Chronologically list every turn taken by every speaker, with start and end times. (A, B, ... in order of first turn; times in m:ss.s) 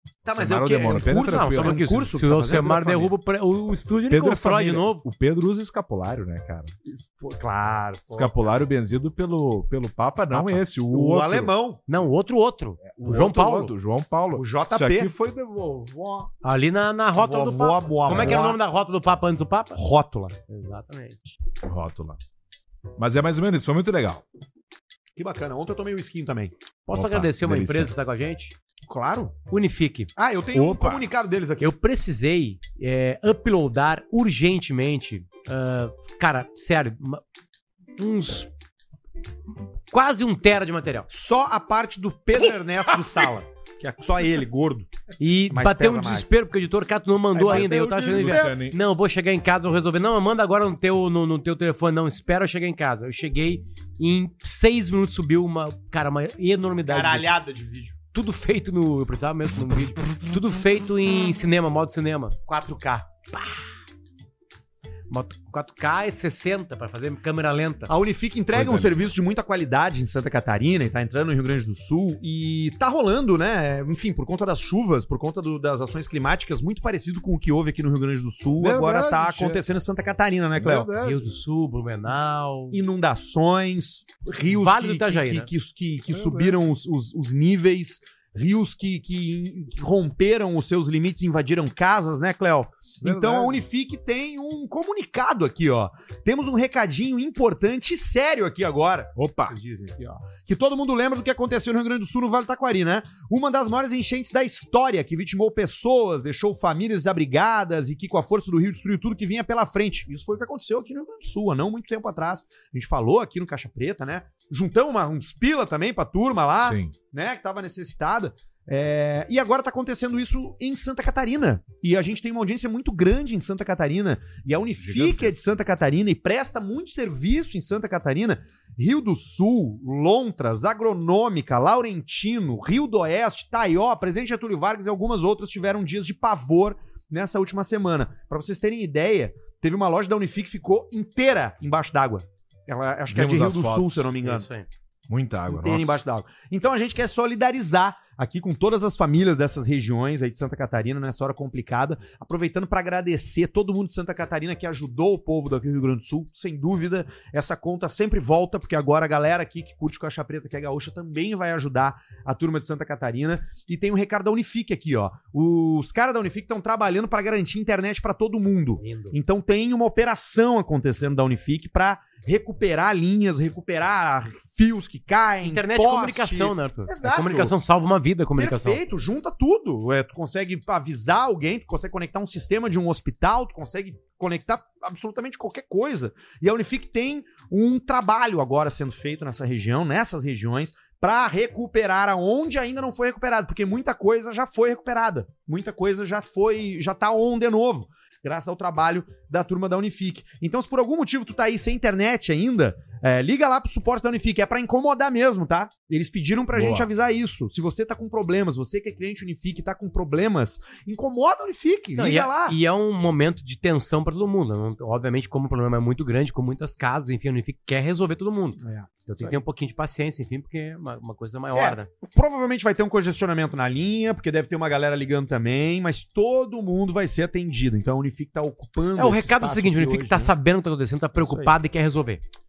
0:00.2-0:03.1 A
0:00.3-0:02.0 B
0:01.0-0:05.0 C
0:04.1-0:06.7 B
0:06.9-0:08.3 A
0:08.1-0:11.5 B
0:10.3-0:10.6 C
0:10.9-0:11.8 A
0:11.9-0:13.7 C
0:12.8-0:16.2 B
0:14.3-0:15.1 A
0:16.4-0:19.8 C
0:17.2-0:18.6 A
0:18.1-0:18.4 B
0:19.7-0:20.4 A
0:20.5-0:21.4 C
0:21.6-0:22.2 B
0:23.0-0:24.2 B
0:25.2-0:26.5 A
0:26.9-0:28.5 C
0:26.9-0:27.9 B
0:28.9-0:29.4 A
0:29.5-0:30.1 C
0:30.2-0:31.7 A
0:30.5-0:31.1 B
0:31.6-0:37.2 C
0:38.0-0:38.5 C
0:39.9-0:41.1 C
0:41.1-0:44.9 A
0:45.2-0:57.3 C
0:45.5-0:46.3 A
0:47.3-0:48.6 A
0:47.5-0:48.8 B
0:56.9-0:58.0 A
0:58.1-1:02.4 C
1:02.5-1:03.1 A
1:05.1-1:07.9 C
1:07.9-1:20.9 A
1:08.5-1:09.1 B
1:18.6-1:19.6 B
1:20.6-1:21.2 B
1:21.0-1:22.8 C
1:22.7-2:24.5 A
1:24.5-1:25.5 C
1:26.1-1:26.6 B
1:33.0-1:33.6 B
1:39.2-1:39.6 B
1:56.6-1:56.9 B
2:04.8-2:05.6 B
2:23.1-2:24.1 B
2:24.2-2:24.7 C
2:25.1-2:26.0 B
2:25.5-2:57.5 A
2:48.8-2:49.1 C
2:55.4-2:58.8 C
2:58.4-3:32.6 A
3:26.5-3:26.9 B
3:32.0-3:41.9 C
3:38.6-3:39.4 A
3:41.5-3:50.3 A
3:49.0-3:52.2 C
3:51.2-3:51.5 A